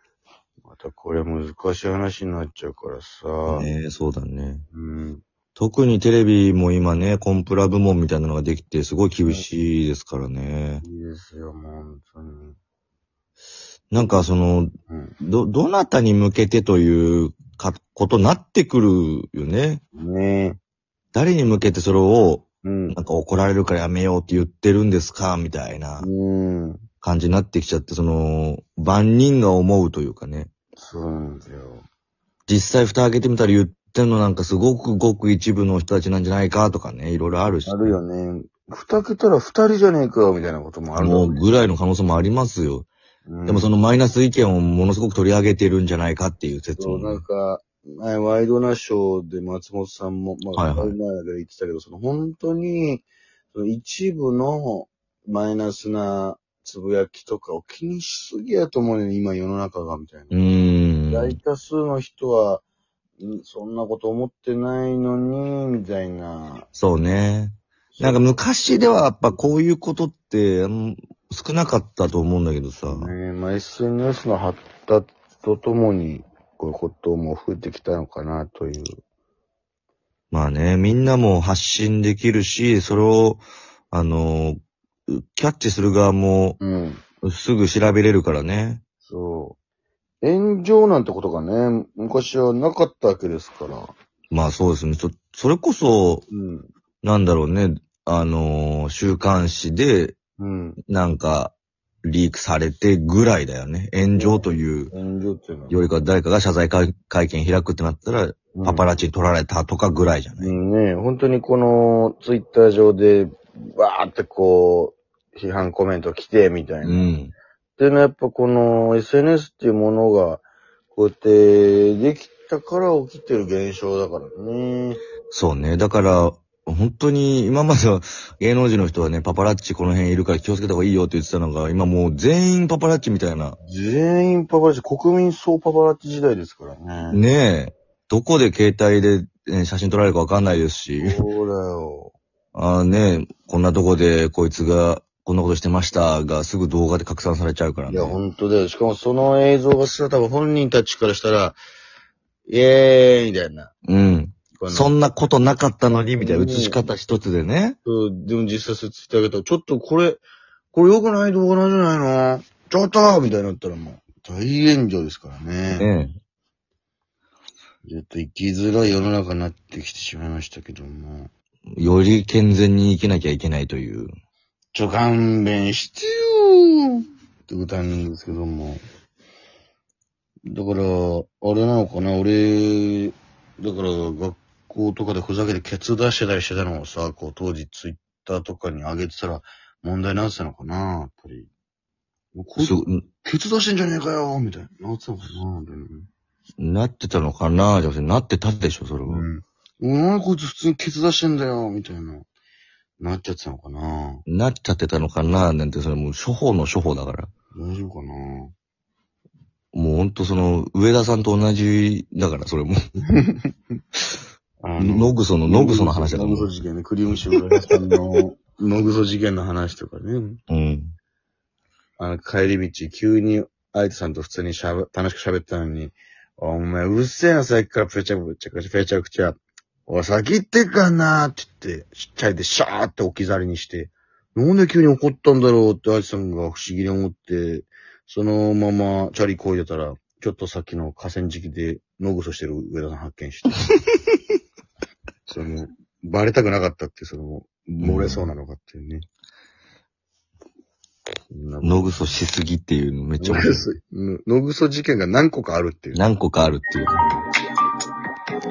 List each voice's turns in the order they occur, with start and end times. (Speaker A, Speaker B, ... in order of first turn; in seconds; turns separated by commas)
Speaker A: 0.6-3.7, Speaker B: 3.5-4.6, Speaker A: 4.7-5.2, Speaker B: 5.6-10.8, Speaker A: 10.8-12.6, Speaker B: 13.9-19.8, Speaker A: 13.9-14.2, Speaker A: 14.9-15.1, Speaker A: 19.9-20.6, Speaker B: 21.1-26.1, Speaker A: 22.6-22.9, Speaker A: 26.0-26.8, Speaker B: 27.0-30.5, Speaker A: 30.8-31.9, Speaker B: 32.5-38.0, Speaker A: 37.6-41.4, Speaker B: 41.0-42.9, Speaker A: 43.2-43.7, Speaker B: 43.5-47.2, Speaker A: 46.8-60.4, Speaker B: 50.5-50.9, Speaker B: 60.3-61.4, Speaker A: 61.1-62.6, Speaker A: 63.2-66.7, Speaker B: 66.7-73.1, Speaker A: 67.9-68.4, Speaker A: 72.8-79.0, Speaker B: 80.3-86.6, Speaker A: 86.6-87.0, Speaker B: 87.2-88.8, Speaker A: 89.0-89.6, Speaker A: 90.2-93.9, Speaker B: 94.3-96.2, Speaker A: 96.3-96.7, Speaker B: 97.0-100.1, Speaker A: 100.4-100.8, Speaker B: 100.9-104.9, Speaker A: 104.2-105.8, Speaker B: 105.7-110.5, Speaker A: 108.5-108.8, Speaker A: 110.4-117.0, Speaker B: 116.8-117.3, Speaker A: 117.8-125.0, Speaker B: 125.3-133.6, Speaker A: 133.6-137.2, Speaker B: 137.1-141.2, Speaker A: 141.0-142.1, Speaker B: 142.5-148.2, Speaker A: 147.9-151.6, Speaker A: 152.5-153.7, Speaker B: 153.9-157.8, Speaker A: 154.5-154.9, Speaker A: 156.2-156.8, Speaker A: 157.8-165.9, Speaker B: 165.7-166.1, Speaker A: 167.8-171.3, Speaker B: 171.8-174.1, Speaker A: 174.7-178.8, Speaker A: 180.4-191.5, Speaker A: 192.3-196.1, Speaker B: 192.6-193.0, Speaker B: 196.6-199.2, Speaker A: 199.1-202.2, Speaker A: 203.0-204.2, Speaker B: 204.3-207.3, Speaker A: 207.5-208.5, Speaker B: 209.7-212.8, Speaker A: 213.1-213.5, Speaker A: 214.6-220.4, Speaker B: 214.8-216.5, Speaker B: 220.5-220.9, Speaker A: 222.0-243.8, Speaker A: 245.3-249.1, Speaker B: 247.8-248.2, Speaker A: 251.3-252.0, Speaker B: 251.6-253.7, Speaker A: 253.2-256.0, Speaker B: 255.9-256.9, Speaker A: 256.9-257.2